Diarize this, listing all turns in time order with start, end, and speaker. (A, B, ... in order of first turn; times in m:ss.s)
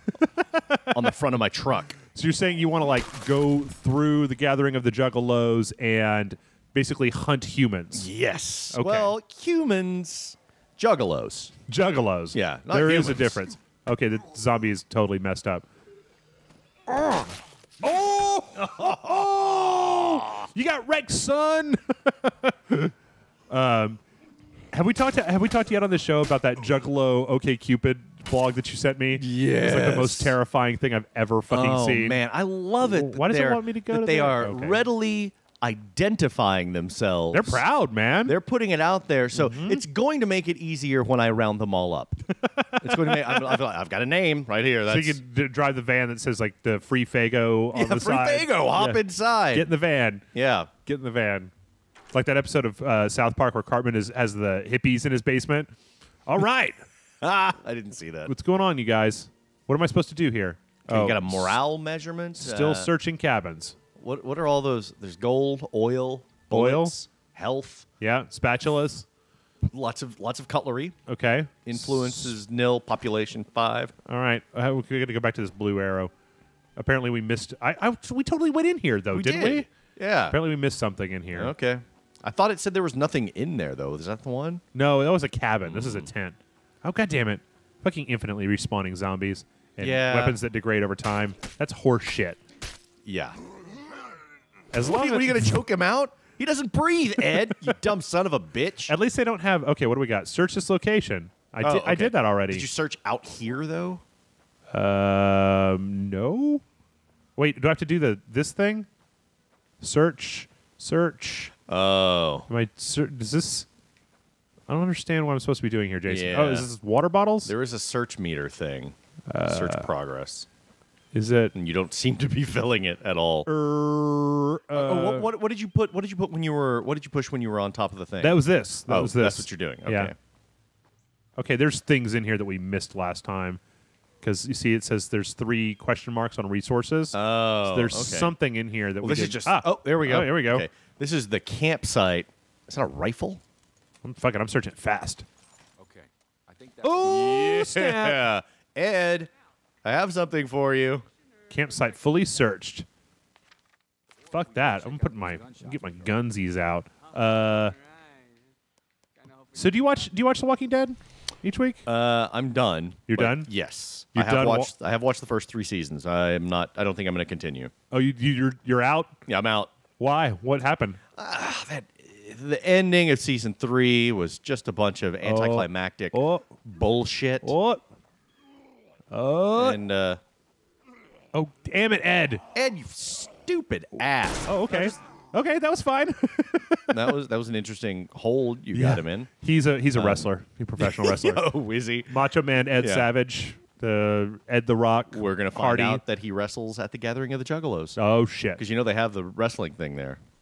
0:00.2-0:01.0 A
0:00.9-0:02.0 B
0:02.1-0:08.1 A
0:07.9-0:11.5 B
0:08.7-0:09.1 A
0:11.7-0:15.6 A
0:12.3-0:13.4 B
0:16.9-0:22.9 A
0:18.6-0:19.2 B
0:23.5-0:24.0 A
0:24.7-0:32.2 A
0:29.2-0:30.4 B
0:31.5-0:37.6 B
0:32.8-0:34.8 A
0:37.3-0:38.3 A
0:38.2-0:42.2 B
0:39.4-0:39.8 A
0:42.4-0:43.6 A
0:42.8-0:45.2 B
0:44.9-0:50.2 A
0:47.7-0:49.7 B
0:50.3-0:50.7 B
0:50.8-0:51.5 A
0:52.1-0:55.7 A
0:56.2-0:56.8 A
0:57.2-0:58.3 B
0:58.3-1:01.6 A
1:00.9-1:02.9 B
1:02.4-1:03.8 A
1:04.0-1:07.8 B
1:06.5-1:06.9 A
1:08.0-1:09.0 A
1:09.6-1:11.0 B
1:11.1-1:12.4 A
1:11.6-1:13.9 B
1:14.0-1:16.1 A
1:16.8-1:19.7 A
1:19.1-1:20.4 B
1:20.3-1:21.5 A
1:21.3-1:24.6 B
1:24.7-1:32.4 A
1:25.6-1:26.1 B
1:29.8-1:30.4 B
1:33.0-1:33.4 B
1:34.7-1:35.5 A
1:34.8-1:38.9 B
1:38.9-1:42.6 A
1:41.6-1:44.0 B
1:44.7-1:46.6 A
1:47.4-1:48.9 A
1:49.8-1:51.5 A
1:51.7-1:52.5 B
1:52.5-1:53.7 A
1:54.7-1:57.5 A
1:56.1-1:56.7 B
1:57.4-1:58.9 B
1:59.3-1:59.9 A
1:59.4-2:00.5 B
2:01.1-2:01.5 A
2:01.5-2:03.5 B
2:03.4-2:05.3 A
2:04.7-2:10.1 B
2:08.2-2:10.1 A
2:11.4-2:13.6 A
2:14.2-2:20.6 A
2:17.1-2:18.3 B
2:19.0-2:23.4 B
2:24.0-2:25.2 A
2:25.8-2:26.8 C
2:26.8-2:28.2 A
2:27.0-2:29.3 B
2:29.8-2:31.0 B
2:31.5-2:32.9 A
2:34.3-2:37.7 A
2:37.8-2:38.2 C
2:39.2-2:39.6 C
2:39.6-2:41.8 A
2:41.8-2:47.7 B
2:43.1-2:43.5 A
2:44.1-2:44.7 A
2:47.9-2:49.2 A
2:49.3-2:49.7 B
2:50.0-2:51.0 A
2:51.2-2:57.5 B
2:55.2-2:56.5 A
2:57.4-2:57.8 A
2:59.1-2:59.8 A
2:59.6-3:00.2 B
3:01.3-3:02.4 A
3:02.5-3:05.0 B
3:04.5-3:07.0 A
3:06.9-3:09.3 B
3:08.7-3:11.5 A
3:09.9-3:10.3 B
3:10.8-3:12.1 B
3:12.1-3:16.0 A
3:12.8-3:13.1 B
3:15.1-3:18.0 B
3:18.0-3:18.6 A
3:18.6-3:20.2 B